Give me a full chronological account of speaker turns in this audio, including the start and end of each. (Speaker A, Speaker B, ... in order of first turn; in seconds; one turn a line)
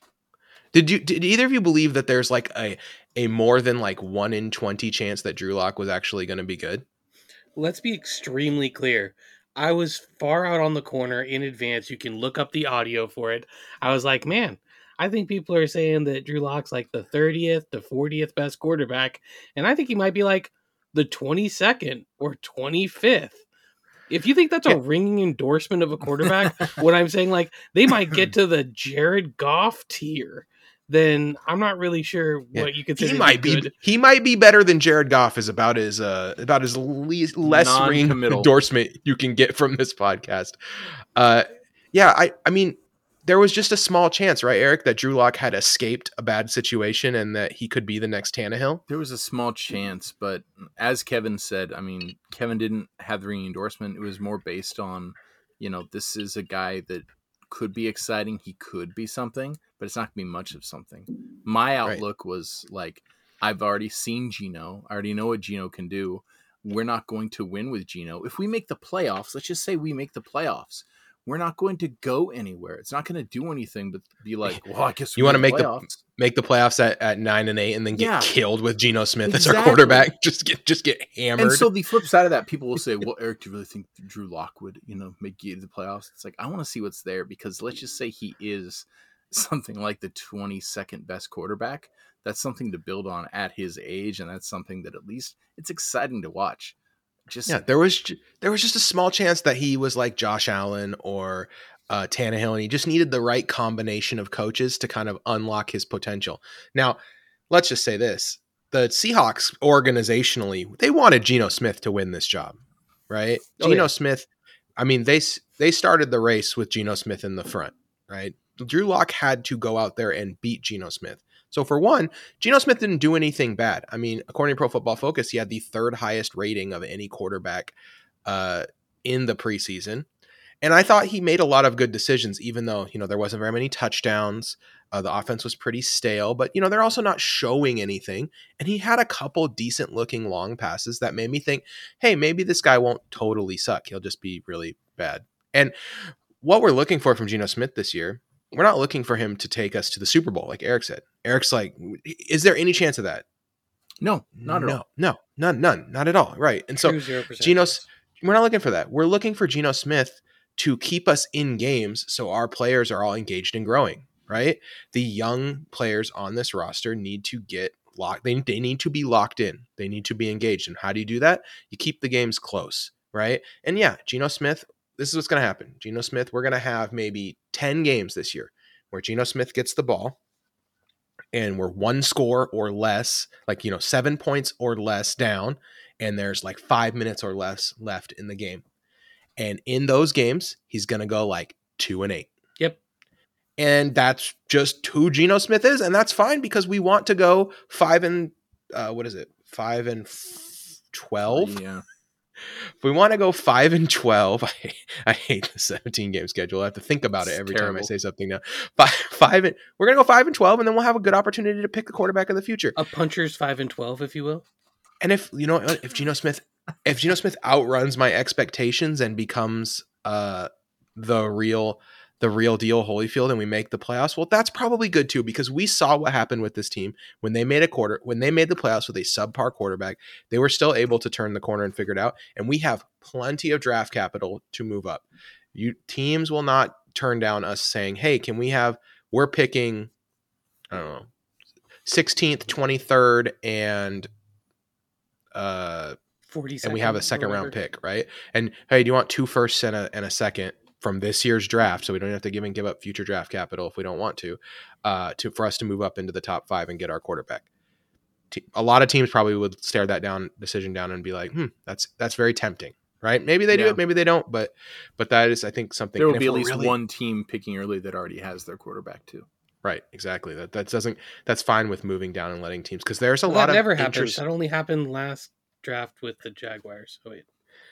Speaker A: 0.7-6.8
Speaker B: 7.5-23.4
Speaker B: 24.1-33.7
Speaker A: 32.5-40.5
Speaker C: 37.4-38.5
Speaker A: 41.1-48.8
Speaker C: 48.9-76.0
Speaker A: 75.2-81.7
Speaker C: 77.9-78.3
Speaker C: 79.3-80.1
Speaker C: 81.4-96.7
Speaker C: 97.3-97.6
Speaker A: 97.5-107.0
Speaker A: 107.5-112.6
Speaker A: 113.1-130.1
Speaker B: 113.6-113.8
Speaker A: 130.6-153.2
Speaker C: 154.0-154.8
Speaker A: 154.4-180.2
Speaker B: 156.8-157.8
Speaker A: 181.3-188.6
Speaker A: 189.4-192.3
Speaker A: 193.6-201.6
Speaker C: 201.3-201.8
Speaker A: 202.8-212.8
Speaker C: 207.2-207.9
Speaker B: 212.8-214.4
Speaker A: 215.0-239.9
Speaker A: 240.7-241.1
Speaker A: 241.8-244.1
Speaker A: 245.3-246.0
Speaker B: 246.3-247.5
Speaker A: 246.6-257.5
Speaker A: 258.3-266.8
Speaker B: 263.5-263.8
Speaker C: 266.0-269.2
Speaker A: 269.6-274.2
Speaker B: 273.3-277.2